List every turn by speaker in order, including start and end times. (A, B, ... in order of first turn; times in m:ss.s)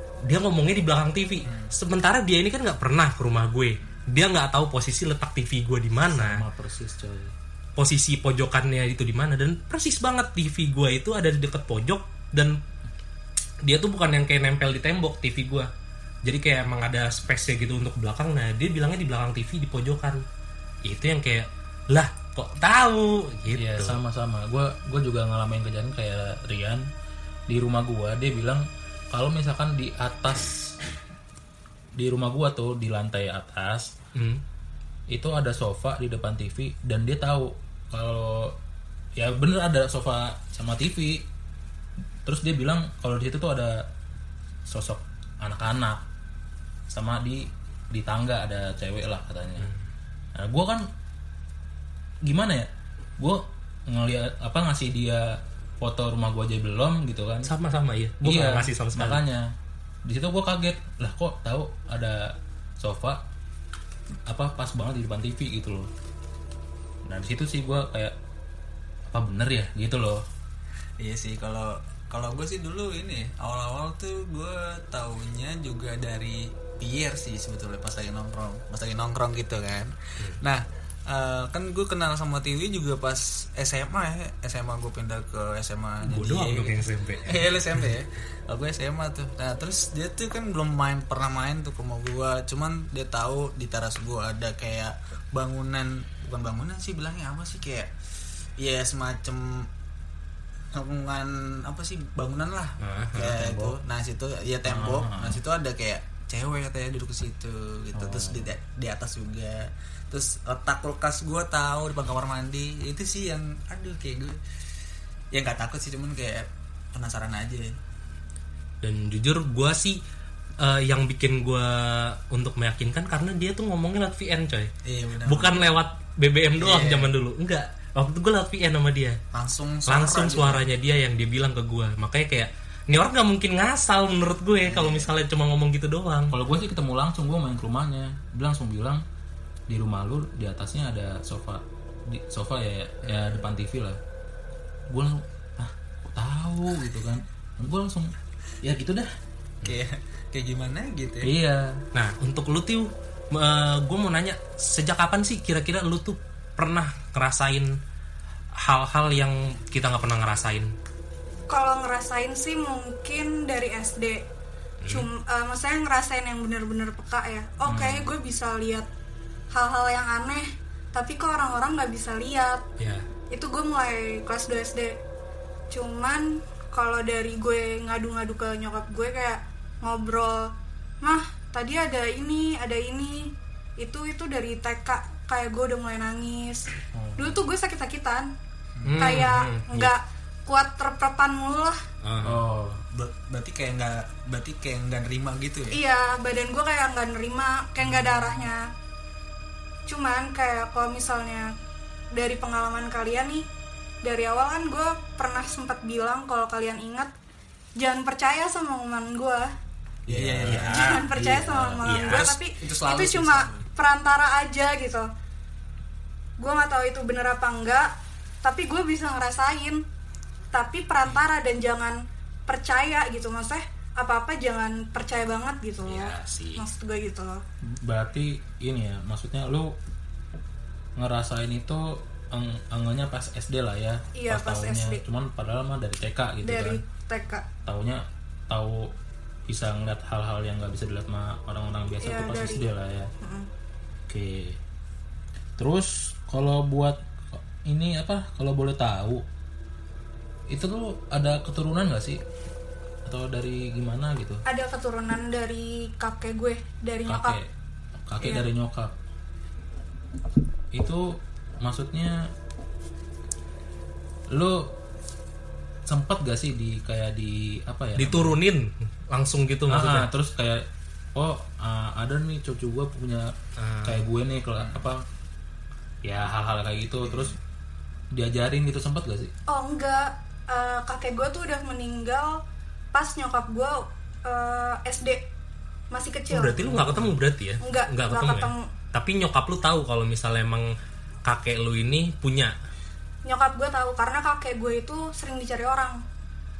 0:00.2-0:06.4 A
0:01.4-0:01.7 B
0:06.0-0:07.3 C
0:07.8-0:12.6 A
0:13.6-0:15.7 A
0:16.2-0:20.2 A
0:20.8-0:24.0 A
0:23.5-0:26.8 C
0:27.5-0:30.7 C
0:32.0-0:33.9 C
0:34.2-0:34.4 A
0:35.1-0:38.5 C
0:39.2-0:41.2 C
0:42.2-0:43.8 C
0:44.7-0:46.0 C
0:46.9-0:49.7 C
0:50.4-0:50.8 C
0:52.2-0:52.7 C
0:53.2-0:57.5 C
0:57.4-0:59.2 A
0:58.2-0:59.4 C
1:00.0-1:03.2 C
1:04.3-1:05.9 C
1:07.1-1:08.1 C
1:09.1-1:10.2 C
1:11.0-1:37.9 B
1:26.0-1:27.3 A
1:38.6-1:39.7 B
1:40.7-1:54.4 B
1:42.8-1:43.4 A
1:43.4-1:43.8 C
1:44.6-1:45.4 C
1:47.9-1:48.5 C
1:55.3-1:57.7 B
1:58.8-2:00.0 A
2:00.6-2:04.7 A
2:04.8-2:05.7 B
2:05.2-2:09.2 A
2:06.6-2:07.1 B
2:09.3-2:10.6 B
2:09.9-2:16.4 A
2:14.6-2:15.1 B
2:16.3-2:19.0 C
2:19.7-2:24.0 C
2:23.2-2:23.4 B
2:24.9-2:29.1 C
2:29.6-2:31.3 B
2:31.2-2:31.8 C
2:31.9-2:37.7 A
2:38.6-2:40.7 A
2:41.5-2:44.2 D
2:44.8-2:45.1 A
2:44.9-2:48.9 D
2:47.6-2:48.1 C
2:49.5-2:52.6 D
2:53.3-2:54.9 D
2:55.7-3:00.5 D
3:01.0-3:03.3 D
3:03.8-3:06.6 D
3:06.9-3:07.5 C
3:07.2-3:08.3 D
3:08.7-3:09.2 B
3:08.8-3:09.9 A
3:09.0-3:11.8 D
3:12.0-3:12.4 A
3:12.2-3:12.8 C
3:12.9-3:15.8 B
3:15.7-3:18.6 D
3:17.8-3:18.3 B
3:19.9-3:21.4 D
3:22.1-3:23.4 D
3:24.0-3:27.1 D
3:27.8-3:29.5 D
3:30.1-3:30.8 B
3:30.1-3:32.0 C
3:30.5-3:31.1 A
3:30.8-3:35.1 D
3:31.8-3:32.4 A
3:32.0-3:33.6 B
3:36.4-3:37.9 D
3:38.4-3:39.8 D
3:40.5-3:47.4 D
3:45.8-3:46.6 A
3:47.7-3:49.7 C
3:51.0-3:56.8 C
3:54.2-3:55.0 D
3:56.4-3:57.4 D
3:57.6-3:58.9 C
3:59.5-4:03.1 C
4:02.0-4:02.6 D
4:03.2-4:03.5 D
4:04.1-4:04.6 C
4:05.6-4:09.2 C
4:10.5-4:12.2 C
4:13.0-4:14.4 C
4:14.5-4:17.3 D
4:17.0-4:17.5 C
4:18.1-4:18.9 C
4:20.7-4:22.2 C
4:24.3-4:24.6 C
4:25.8-4:28.4 C
4:28.0-4:30.1 A
4:29.7-4:30.6 C
4:31.1-4:33.3 C
4:33.6-4:34.0 A
4:33.8-4:35.0 C
4:36.0-4:37.4 C
4:37.0-4:37.3 B
4:38.1-4:39.3 C
4:39.5-4:42.4 D
4:42.9-4:45.2 D
4:45.9-4:46.6 D
4:46.3-4:50.7 A
4:46.5-4:47.2 C
4:47.6-4:48.6 D
4:51.2-4:52.5 A
4:53.2-4:56.0 D